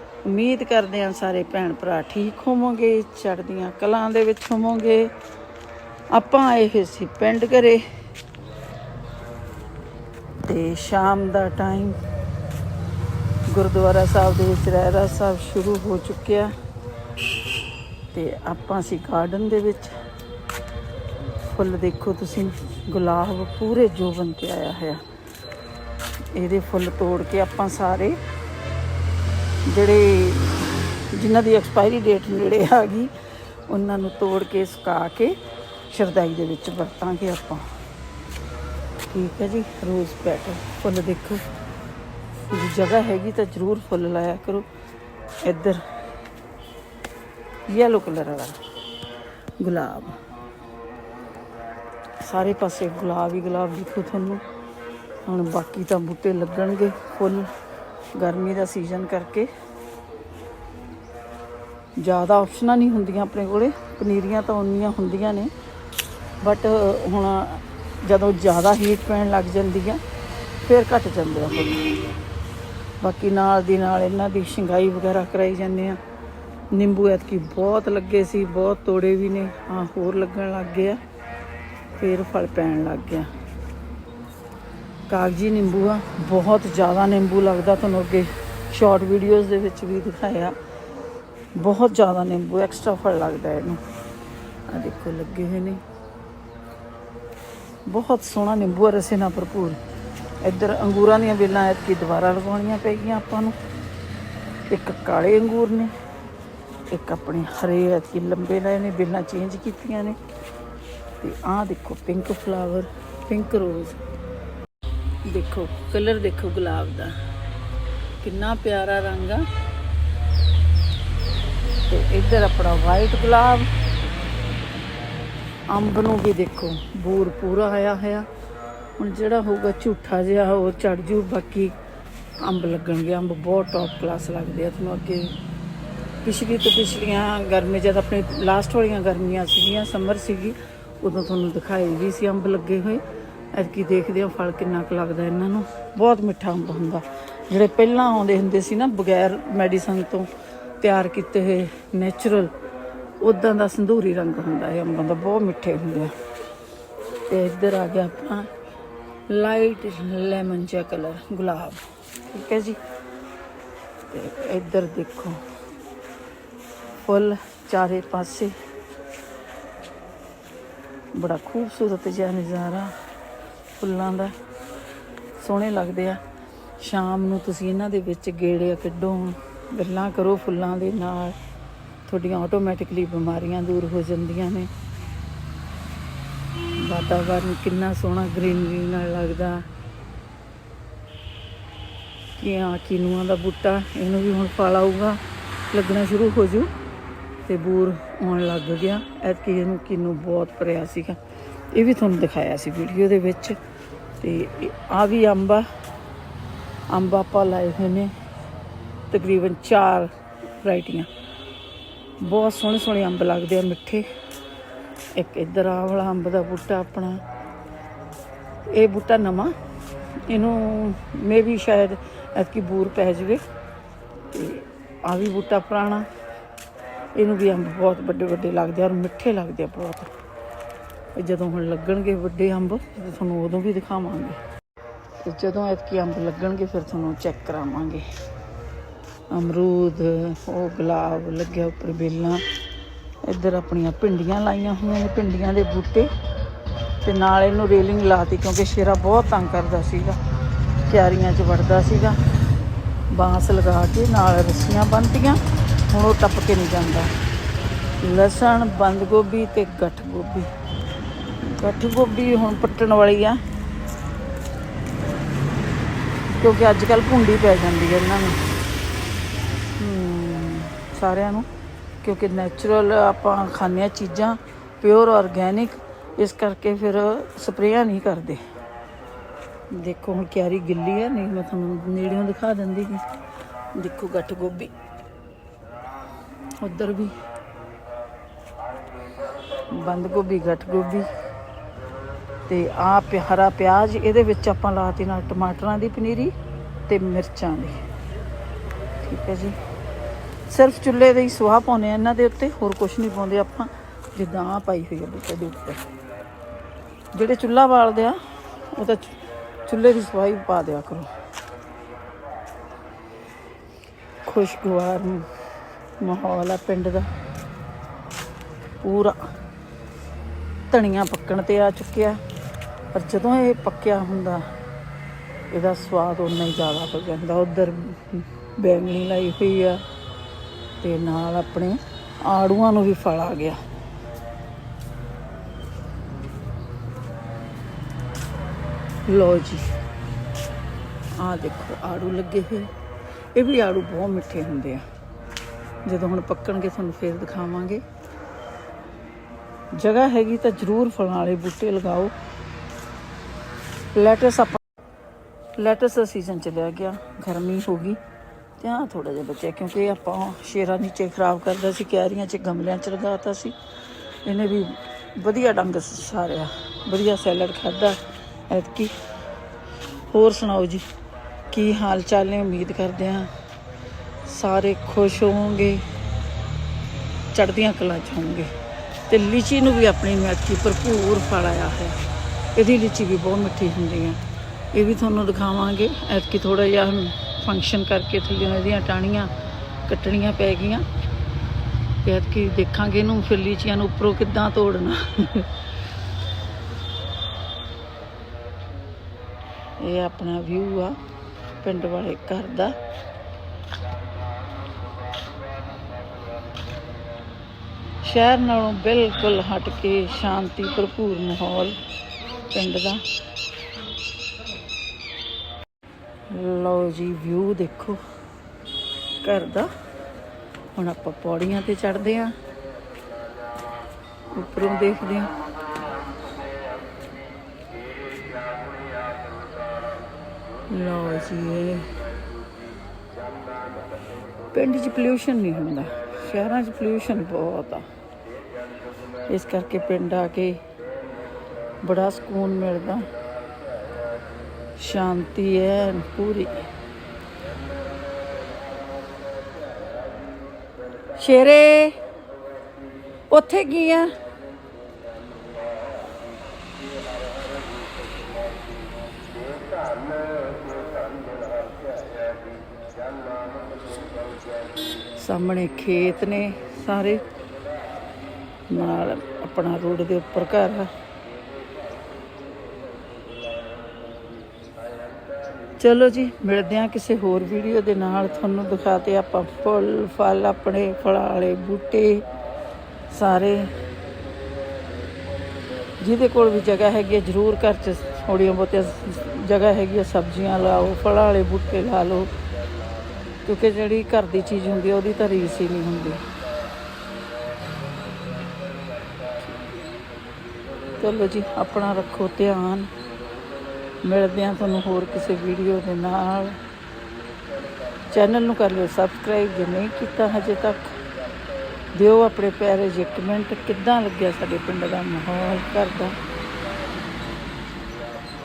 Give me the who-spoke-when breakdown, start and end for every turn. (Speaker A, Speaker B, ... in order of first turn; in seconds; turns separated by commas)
Speaker A: 0.2-5.1, Speaker A: 6.1-7.8, Speaker A: 10.4-12.0, Speaker A: 13.5-16.5, Speaker A: 18.1-19.9, Speaker A: 21.4-25.0, Speaker A: 26.3-28.2, Speaker A: 29.6-33.1, Speaker A: 33.7-35.4, Speaker A: 35.9-37.7, Speaker A: 39.1-41.4, Speaker A: 42.5-44.7, Speaker A: 45.4-45.8, Speaker A: 47.7-48.6, Speaker A: 49.6-50.2, Speaker A: 52.2-54.4, Speaker A: 55.2-57.5, Speaker A: 58.1-59.5, Speaker A: 62.0-65.5, Speaker A: 66.4-70.0, Speaker A: 70.6-71.9, Speaker A: 73.0-76.0, Speaker A: 76.7-81.0, Speaker A: 82.0-83.3, Speaker A: 85.1-90.5, Speaker A: 91.5-93.8, Speaker A: 94.7-95.8, Speaker A: 97.8-99.8, Speaker A: 100.4-103.5, Speaker A: 104.7-105.9, Speaker A: 106.9-110.2, Speaker A: 111.2-114.0, Speaker A: 115.2-117.2, Speaker A: 118.2-119.5, Speaker A: 121.8-123.7, Speaker A: 125.7-128.3, Speaker A: 129.0-131.8, Speaker A: 132.4-135.4, Speaker A: 136.2-152.5, Speaker A: 153.2-156.1, Speaker A: 157.3-158.5, Speaker A: 159.3-162.8, Speaker A: 164.1-165.4, Speaker A: 167.0-168.5, Speaker A: 171.1-172.9, Speaker A: 173.8-174.3, Speaker A: 175.4-176.2, Speaker A: 176.8-181.4, Speaker A: 182.1-184.7, Speaker A: 186.7-189.7, Speaker A: 192.4-195.2, Speaker A: 195.7-196.7, Speaker A: 197.4-201.2, Speaker A: 201.7-203.6, Speaker A: 204.2-205.7, Speaker A: 206.9-208.1, Speaker A: 209.1-211.1, Speaker A: 212.2-214.1, Speaker A: 215.1-217.2, Speaker A: 218.7-219.5, Speaker A: 220.2-223.4, Speaker A: 224.3-226.1, Speaker A: 227.1-230.1, Speaker A: 231.1-234.4, Speaker A: 235.2-238.1, Speaker A: 239.3-242.4, Speaker A: 243.2-246.1, Speaker A: 247.0-250.2, Speaker A: 250.8-252.2, Speaker A: 253.1-257.1, Speaker A: 258.0-260.5, Speaker A: 261.5-263.4, Speaker A: 266.4-268.4, Speaker A: 269.8-271.5, Speaker A: 272.0-278.4, Speaker A: 279.7-283.0, Speaker A: 283.7-284.7, Speaker A: 286.6-287.1, Speaker A: 289.7-291.1, Speaker A: 292.5-296.3, Speaker A: 296.9-297.8, Speaker A: 299.0-299.6, Speaker A: 300.5-305.8, Speaker A: 307.1-311.1, Speaker A: 314.2-315.3, Speaker A: 316.0-317.1, Speaker A: 318.8-319.2, Speaker A: 320.7-322.2, Speaker A: 322.9-324.5, Speaker A: 325.5-329.8, Speaker A: 330.8-333.6, Speaker A: 339.1-339.6, Speaker A: 341.2-342.7, Speaker A: 343.3-344.8, Speaker A: 345.8-347.8, Speaker A: 349.7-352.1, Speaker A: 353.9-354.6, Speaker A: 355.6-358.0, Speaker A: 358.6-363.6, Speaker A: 364.2-368.9, Speaker A: 370.1-370.9, Speaker A: 371.5-373.3, Speaker A: 374.2-375.8, Speaker A: 377.3-378.5, Speaker A: 379.1-382.0, Speaker A: 382.5-384.2, Speaker A: 384.7-389.3, Speaker A: 389.9-390.8, Speaker A: 392.0-395.5, Speaker A: 399.8-401.0, Speaker A: 401.6-402.8, Speaker A: 408.0-411.8, Speaker A: 412.5-413.0, Speaker A: 416.3-418.0, Speaker A: 419.2-419.7, Speaker A: 420.7-422.4, Speaker A: 424.3-425.3, Speaker A: 430.7-431.9, Speaker A: 434.5-437.9, Speaker A: 439.3-440.6, Speaker A: 441.8-443.1, Speaker A: 444.8-446.7, Speaker A: 451.2-451.9, Speaker A: 453.3-454.1, Speaker A: 465.1-467.2, Speaker A: 468.7-470.9, Speaker A: 475.8-482.2, Speaker A: 483.1-483.7, Speaker A: 486.0-492.3, Speaker A: 493.4-496.2, Speaker A: 501.0-502.9, Speaker A: 504.0-506.6, Speaker A: 508.1-511.0, Speaker A: 511.9-516.1